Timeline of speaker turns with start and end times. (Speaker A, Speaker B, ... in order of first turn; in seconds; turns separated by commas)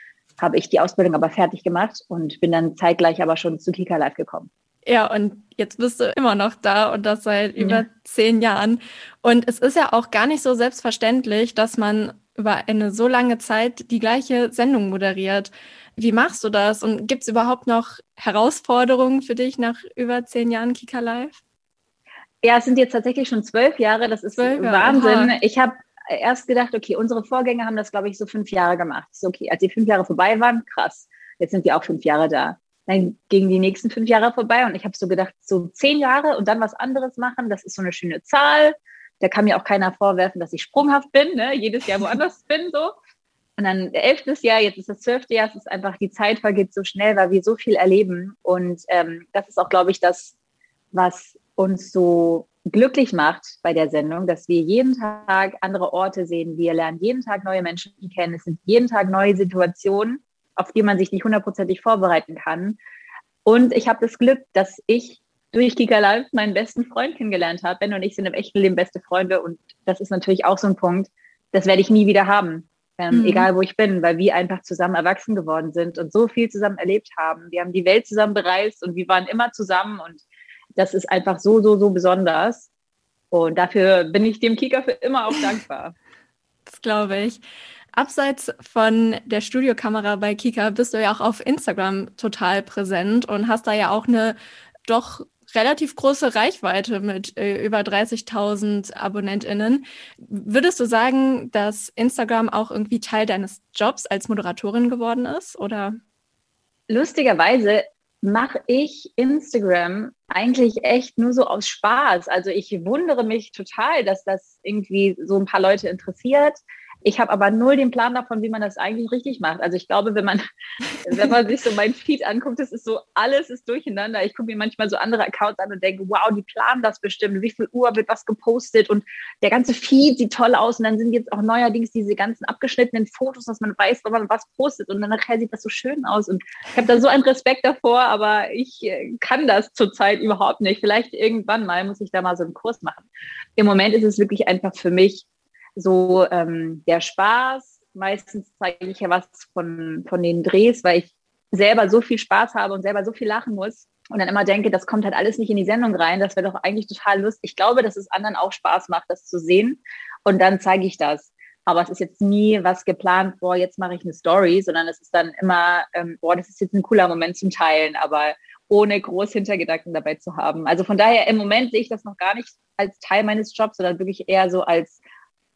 Speaker A: 0.4-4.5, Speaker B: 4.9-21.4, Speaker A: 7.6-7.8, Speaker A: 22.4-42.9, Speaker B: 24.4-25.4, Speaker A: 43.6-50.3, Speaker A: 50.9-62.8, Speaker A: 63.5-80.2, Speaker B: 73.1-73.5, Speaker A: 80.8-82.7, Speaker A: 83.3-85.9, Speaker B: 86.7-87.4, Speaker B: 87.9-106.0, Speaker A: 106.9-120.4, Speaker A: 121.0-145.2, Speaker A: 145.8-175.0